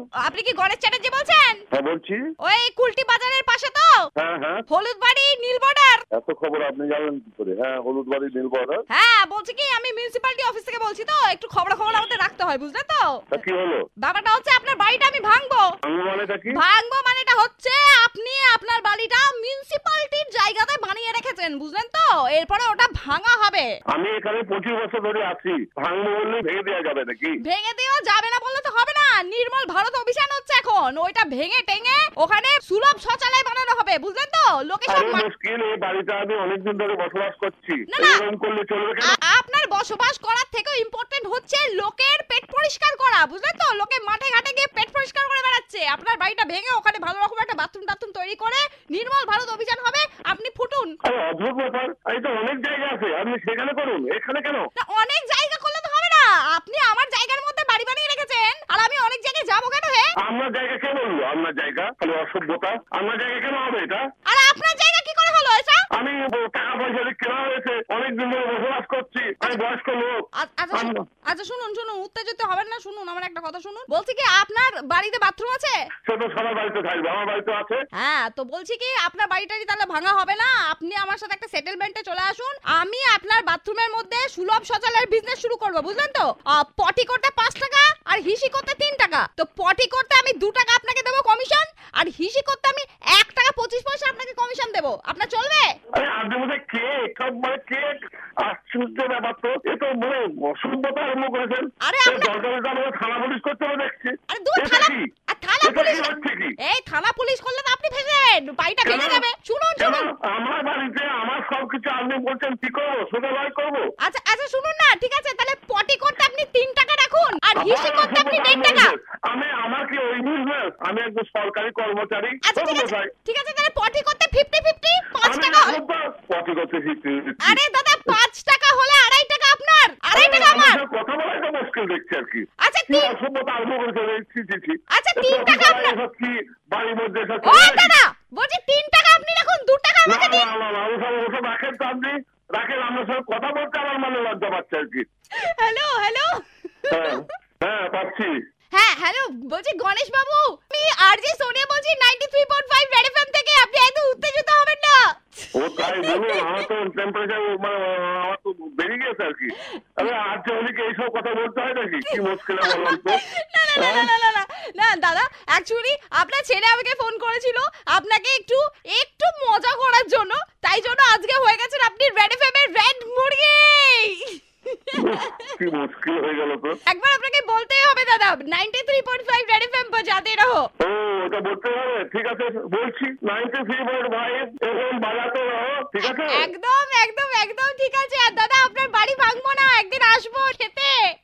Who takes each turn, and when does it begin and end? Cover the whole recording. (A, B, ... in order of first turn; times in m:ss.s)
0:00.2-0:01.6 A
0:01.7-0:02.2 B
0:02.4-0:04.0 A
0:04.2-0:04.6 B
0:04.7-0:06.0 A
0:06.1-0:08.8 B
0:08.9-0:13.2 A
0:13.3-0:13.8 B
0:14.0-0:15.7 A
0:15.8-0:16.6 B
0:16.5-0:23.7 A
0:23.9-0:27.4 B
0:27.4-0:35.3 A
0:34.9-0:39.2 B
0:37.9-0:38.2 A
0:39.0-0:50.9 A
0:51.0-0:54.6 B
0:54.8-1:00.1 A
1:00.2-1:04.0 B
1:04.3-1:05.8 A
1:06.0-1:10.1 B
1:10.4-1:15.8 A
1:10.7-1:11.0 B
1:16.1-1:17.8 B
1:18.0-1:35.7 A
1:35.9-1:45.0 B
1:41.8-1:42.4 A
1:44.3-1:50.1 A
1:45.6-1:46.6 B
1:48.8-1:49.2 B
1:49.8-1:53.8 B
1:54.0-1:58.9 A
1:57.6-2:03.1 B
2:02.4-2:05.8 A
2:05.2-2:08.2 B
2:07.4-2:10.8 A
2:10.1-2:18.0 B
2:12.6-2:13.1 A
2:14.9-2:16.0 A
2:17.4-2:20.5 A
2:20.1-2:25.0 B
2:25.4-2:27.3 A
2:26.9-2:28.3 B
2:28.7-2:36.6 A
2:35.6-2:43.2 B
2:42.0-2:55.6 A
2:43.8-2:44.1 B
2:54.9-2:56.8 B
2:56.9-3:00.6 A
3:00.8-3:06.5 B
3:06.0-3:11.0 A